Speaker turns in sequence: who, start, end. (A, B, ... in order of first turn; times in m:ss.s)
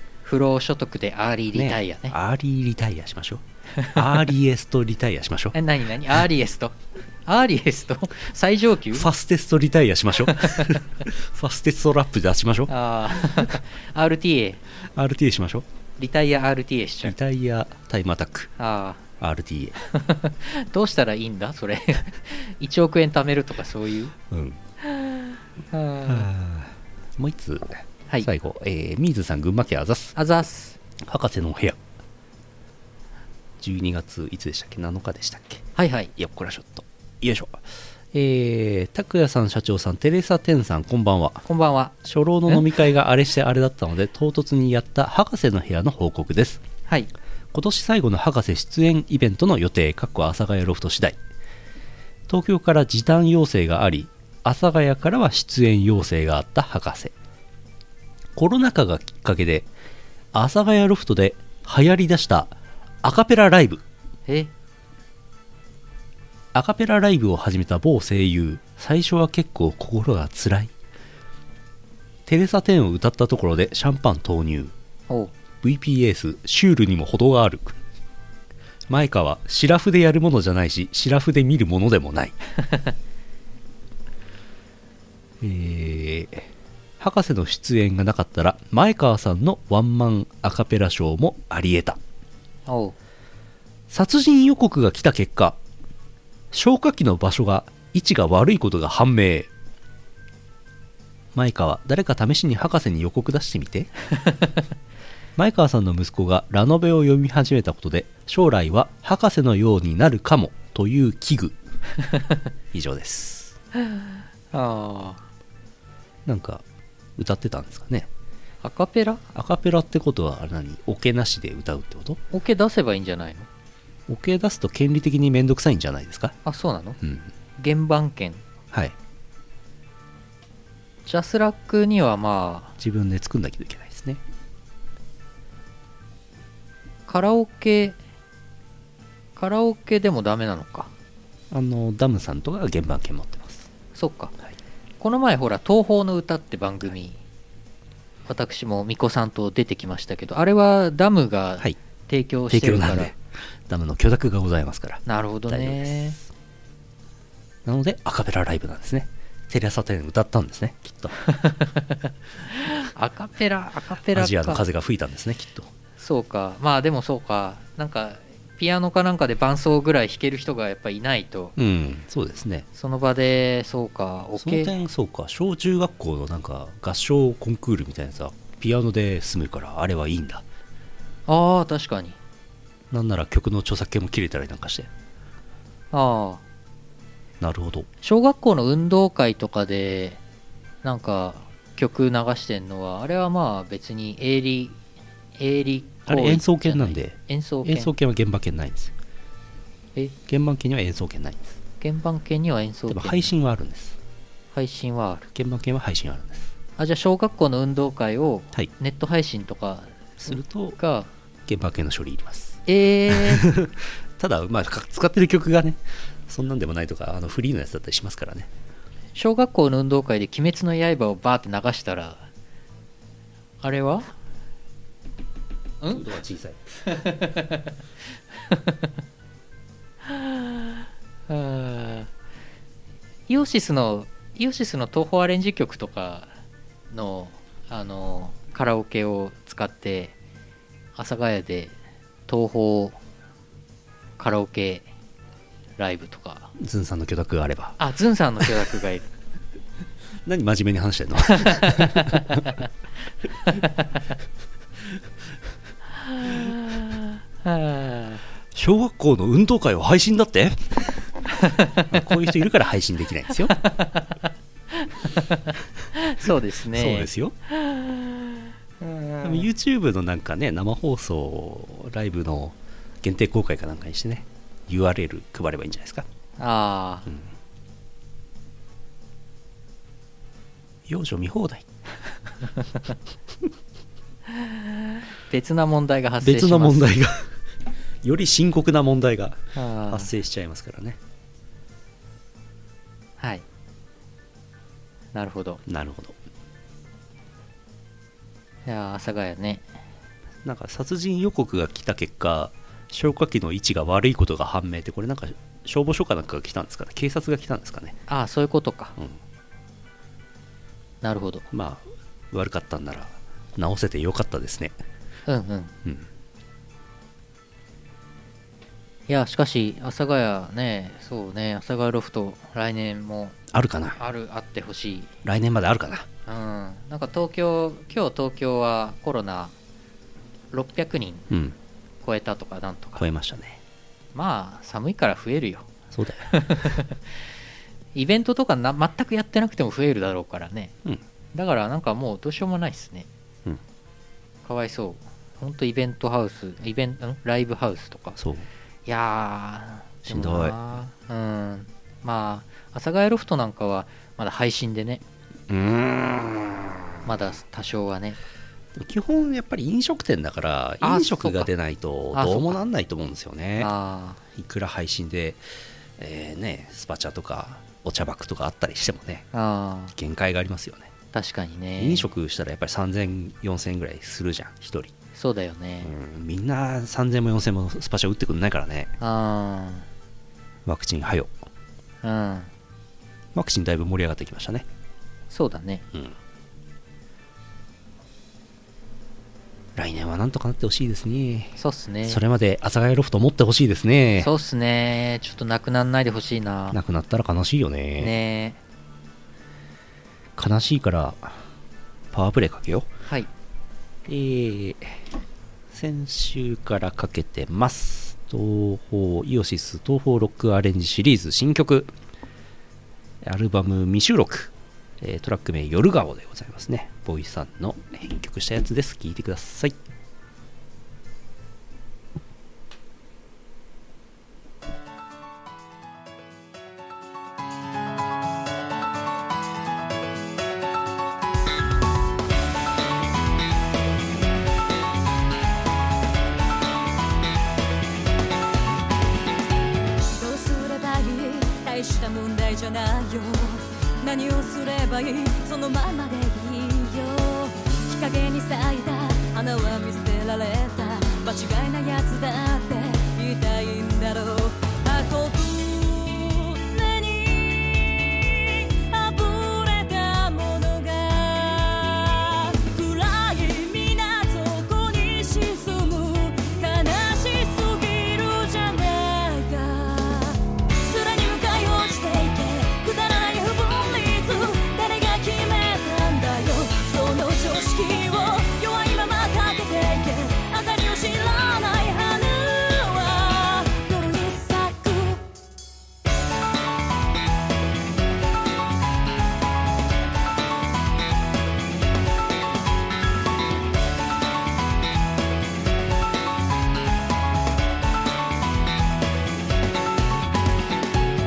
0:00.2-0:02.2 A
0:01.5-0:05.6 B
0:05.5-0:09.1 A
0:08.9-0:13.6 B
0:10.3-0:10.8 A
0:12.7-0:14.6 A
0:14.8-0:15.7 B
0:16.0-0:17.2 A
0:17.0-0:18.5 B
0:18.6-0:19.0 A
0:19.2-0:19.8 B
0:19.9-0:24.1 A
0:24.3-0:24.6 B
0:24.8-0:26.3 A
0:26.1-0:30.2 B
0:30.2-0:30.8 A
0:31.0-0:31.8 B
0:33.6-0:35.6 B
0:35.8-0:36.1 A
0:36.2-0:41.4 B
0:41.5-0:42.0 A
0:42.0-0:46.6 B
0:47.5-0:51.2 B
0:52.3-0:57.1 B
0:58.4-0:59.7 B
1:00.3-1:03.8 B
1:06.5-1:10.7 B
1:12.3-1:14.7 B
1:15.6-1:17.8 B
1:18.9-1:22.4 B
1:22.6-1:22.9 A
1:25.4-1:32.0 B
1:32.7-1:33.0 A
1:33.9-1:35.6 B
1:36.5-1:39.5 B
1:41.3-1:43.9 B
1:45.4-1:51.6 B
1:52.7-1:53.6 B
1:53.8-1:55.2 A
1:56.3-1:56.6 B
1:57.2-1:58.1 B
1:58.6-1:59.2 A
1:59.3-2:02.2 B
2:02.3-2:03.5 A
2:04.1-2:06.4 B
2:06.4-2:07.0 A
2:07.0-2:07.3 B
2:07.6-2:08.4 A
2:11.1-2:12.8 A
2:12.8-2:14.2 B
2:17.1-2:18.0 A
2:19.4-2:20.9 A
2:21.5-2:23.7 B
2:24.0-2:24.3 A
2:25.0-2:27.2 A
2:28.3-2:33.1 A
2:32.5-2:36.2 B
2:35.1-2:36.2 A
2:37.6-2:41.2 B
2:41.3-2:44.6 A
2:44.1-2:45.7 B
2:46.0-2:51.6 A
2:51.6-2:52.7 B
2:52.7-2:54.7 A
2:54.4-3:00.4 B
3:01.3-3:02.2 A
3:02.9-3:04.9 B
3:05.9-3:06.4 A
3:07.4-3:07.9 B
3:08.0-3:10.2 A
3:10.8-3:14.8 A
3:15.4-3:17.9 A
3:16.1-3:18.9 B
3:20.3-3:21.6 B
3:21.8-3:23.3 A
3:22.9-3:24.0 B
3:24.5-3:25.3 A
3:25.3-3:26.5 B
3:26.8-3:31.1 A
3:30.2-3:30.8 B
3:31.5-3:38.5 B
3:32.7-3:33.5 A
3:39.2-3:42.2 A
3:43.6-3:44.1 A
3:45.9-3:46.8 B
3:46.9-3:47.7 A
3:48.5-3:48.8 A
3:50.1-3:50.8 A
3:51.3-3:52.1 A
3:53.3-3:56.3 A
3:56.9-4:00.2 A
4:01.0-4:01.8 A
4:02.3-4:03.0 A
4:04.2-4:04.9 A
4:05.8-4:06.5 A
4:06.6-4:07.8 B
4:07.8-4:09.1 A
4:10.2-4:12.6 B
4:11.3-4:12.5 A
4:16.1-4:18.2 A
4:18.5-4:21.1 B
4:21.4-4:21.9 A
4:21.9-4:23.6 B
4:23.6-4:24.2 A
4:24.7-4:29.5 A
4:26.2-4:27.4 B
4:29.2-4:36.1 B
4:36.4-4:37.1 A
4:40.9-4:41.7 B
4:44.3-4:46.9 A
4:46.2-4:47.3 B
4:48.0-4:51.0 B
4:49.6-4:50.1 A
4:53.2-4:53.4 A
4:55.1-4:55.6 A
4:55.7-4:56.2 B
4:58.7-4:59.7 A
5:00.4-5:08.0 B
5:08.1-5:09.0 A
5:11.0-5:11.4 A
5:11.5-5:14.8 B
5:15.3-5:15.7 A
5:19.1-5:23.4 A
5:23.5-5:24.0 B
5:24.0-5:25.1 A
5:25.2-5:26.1 B
5:26.3-5:29.5 A
5:30.5-5:31.3 A
5:31.3-5:31.6 B
5:32.0-5:33.0 A
5:33.0-5:33.6 B
5:34.1-5:35.7 A
5:35.9-5:36.7 B
5:36.3-5:37.0 A
5:38.0-5:40.7 A
5:41.3-5:43.1 A
5:44.4-5:48.2 A
5:48.2-5:48.5 B
5:48.9-5:55.0 A
5:50.0-5:50.6 B
5:55.5-5:56.8 B
5:57.0-5:58.2 A
5:58.8-6:03.7 B
6:00.8-6:01.5 A
6:02.1-6:02.6 A
6:03.6-6:04.2 A
6:04.4-6:05.4 B
6:06.0-6:09.3 B
6:09.3-6:09.9 A
6:10.0-6:10.9 B
6:11.1-6:12.1 A
6:11.8-6:14.9 B
6:15.2-6:15.9 A
6:15.8-6:18.9 B
6:19.0-6:19.9 A
6:20.6-6:21.3 B
6:22.0-6:22.5 A
6:23.3-6:24.7 B
6:25.3-6:25.8 A
6:29.8-6:34.3 B
6:31.6-6:32.2 A
6:34.2-6:36.8 A
6:36.7-6:38.2 B
6:38.0-6:38.6 A
6:40.4-6:41.4 B
6:42.1-6:42.9 B
6:44.1-6:45.0 B
6:45.7-6:51.9 B
6:53.2-6:59.8 B
7:20.1-8:05.2 C